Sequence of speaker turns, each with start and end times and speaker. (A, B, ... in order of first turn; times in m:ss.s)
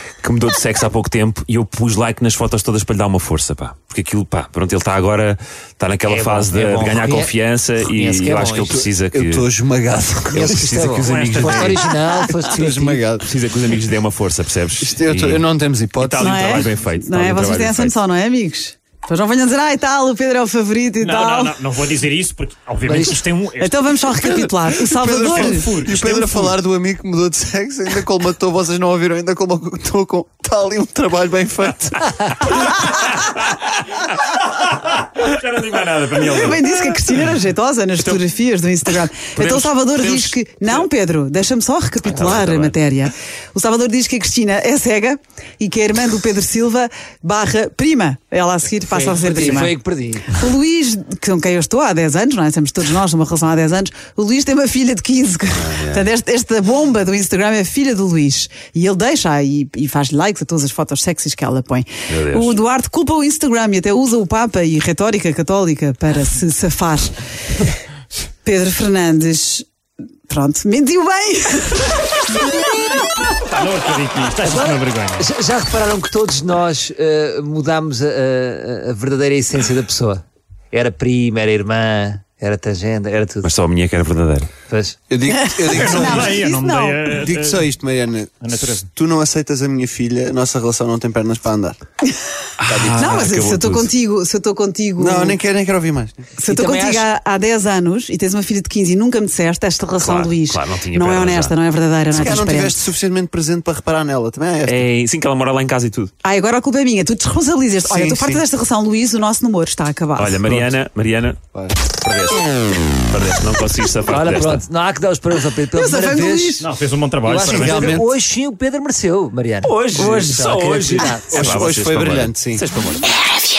0:00.2-0:09.4 A
0:06.1-0:07.3 B
0:07.8-0:08.8 B
0:09.1-0:13.3 C
0:10.3-0:13.0 B
0:11.0-0:11.7 D
0:13.2-0:15.4 A
0:14.8-0:16.6 C
0:16.0-0:17.9 A
0:16.2-0:21.5 E
0:21.0-0:24.2 D
0:22.8-0:23.2 B
0:23.6-0:25.7 E
0:24.7-0:32.1 C
0:25.1-0:26.5 D
0:32.8-0:33.4 A
0:34.5-0:36.6 D
0:36.2-0:49.8 E
0:39.3-0:40.9 A
0:42.1-0:42.8 A
0:48.9-0:50.4 B
0:50.3-1:07.1 E
0:55.6-0:56.0 A
1:02.1-1:02.6 A
1:08.4-1:09.6 E
1:10.3-1:12.2 E
1:13.5-1:15.3 D
1:14.4-1:23.5 B
1:23.4-1:24.5 A
1:24.7-1:25.0 B
1:25.1-1:26.4 C
1:25.3-1:27.2 E
1:25.7-1:27.7 D
1:27.1-1:31.8 C
1:28.4-1:28.9 D
1:32.6-1:33.9 A
1:32.7-1:33.2 C
1:33.0-1:35.4 E
1:35.0-1:36.3 C
1:36.4-1:42.9 E
1:36.4-1:37.0 B
1:40.0-1:41.6 A
1:42.1-1:44.8 C
1:44.6-1:46.1 A
1:46.2-1:50.4 E
1:47.8-1:48.4 C
1:50.2-1:54.6 A
1:54.1-1:56.6 B
1:55.7-1:56.7 E
1:56.6-1:57.9 D
1:57.2-2:01.7 B
1:57.3-1:58.1 C
1:59.6-2:03.4 A
2:01.3-2:02.6 C